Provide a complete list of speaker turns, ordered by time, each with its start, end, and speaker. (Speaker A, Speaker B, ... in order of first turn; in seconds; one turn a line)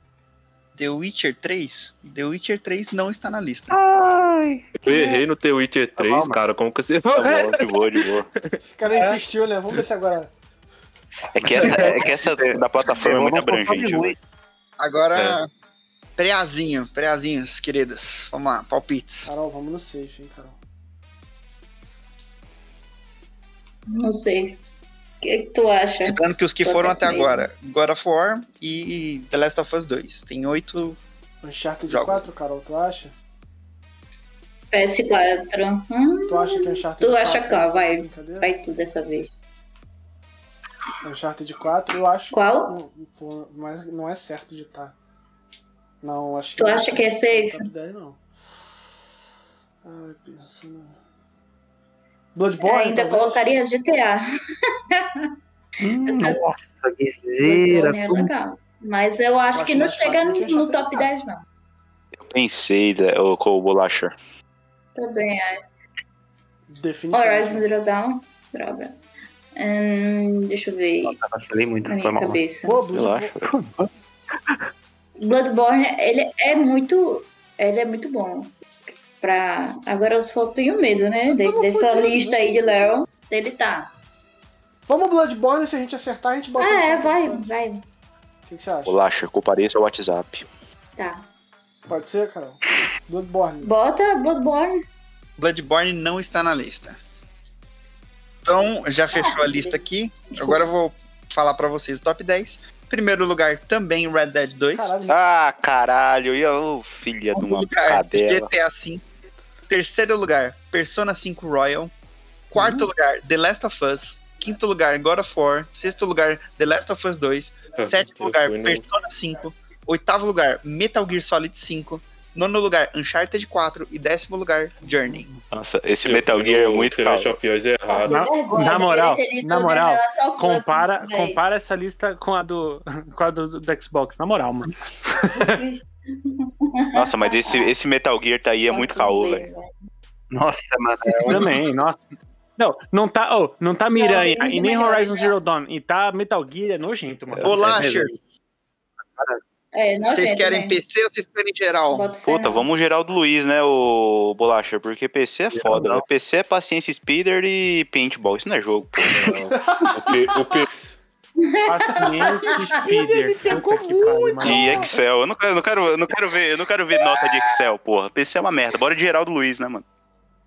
Speaker A: 0.8-3.8
Speaker B: 3.7-5.2
Speaker C: 4.8-8.6
Speaker B: 6.0-6.4
Speaker D: 7.1-8.3
Speaker E: 8.7-10.3
Speaker F: 8.9-9.2
Speaker D: 11.3-14.2
Speaker B: 11.5-14.2
Speaker A: 14.8-15.5
Speaker A: 16.2-19.3
Speaker E: 19.3-20.6
Speaker G: 23.9-24.6
Speaker G: 25.2-27.5
Speaker A: 26.0-31.0
Speaker E: 31.4-33.1
Speaker A: 31.9-32.2
Speaker G: 34.7-39.3
Speaker E: 36.3-38.5
Speaker E: 41.0-45.0
Speaker G: 42.3-42.8
Speaker E: 46.0-48.2
Speaker G: 46.6-47.7
Speaker E: 49.8-51.0
Speaker E: 52.4-53.6
Speaker G: 52.6-54.2
Speaker G: 55.0-55.3
Speaker B: 55.8-58.3
Speaker G: 56.0-56.4
Speaker G: 57.5-61.4
Speaker E: 59.5-61.1
Speaker D: 62.3-64.2
Speaker G: 65.0-65.6
Speaker E: 66.7-67.8
Speaker G: 67.1-69.0
Speaker G: 69.5-71.2
Speaker B: 71.0-72.4
Speaker G: 71.8-72.9
Speaker E: 72.7-73.3
Speaker D: 72.9-73.5
Speaker B: 73.4-73.8
Speaker G: 75.2-78.5
Speaker G: 79.2-83.9
Speaker E: 81.3-82.9
Speaker E: 84.9-87.4
Speaker G: 86.6-87.8
Speaker E: 88.5-89.0
Speaker D: 88.9-90.5
Speaker G: 91.0-91.3
Speaker E: 91.9-93.7
Speaker G: 93.6-94.8
Speaker A: 95.4-97.0
Speaker A: 98.5-104.9
Speaker G: 99.1-100.7
Speaker E: 104.7-105.2
Speaker D: 105.1-108.5
Speaker A: 107.3-109.0
Speaker A: 109.7-111.9
Speaker A: 112.5-125.3
Speaker C: 117.8-118.8
Speaker D: 125.5-127.3
Speaker C: 126.0-128.2
Speaker G: 127.9-131.4
Speaker F: 128.1-135.6
Speaker G: 135.3-137.7
Speaker D: 136.9-139.5
Speaker G: 138.7-139.7
Speaker B: 140.3-141.6
Speaker F: 141.3-142.1
Speaker F: 142.6-147.7
Speaker G: 143.9-145.3
Speaker B: 147.3-148.2
Speaker A: 147.4-148.2
Speaker B: 149.2-149.4
Speaker G: 149.7-150.8
Speaker A: 150.1-152.1
Speaker G: 151.9-152.7
Speaker D: 152.2-159.4
Speaker B: 155.5-156.1
Speaker E: 159.5-160.3
Speaker C: 159.9-161.0
Speaker G: 161.4-162.8
Speaker F: 161.7-164.9
Speaker E: 162.2-164.9
Speaker D: 164.4-169.8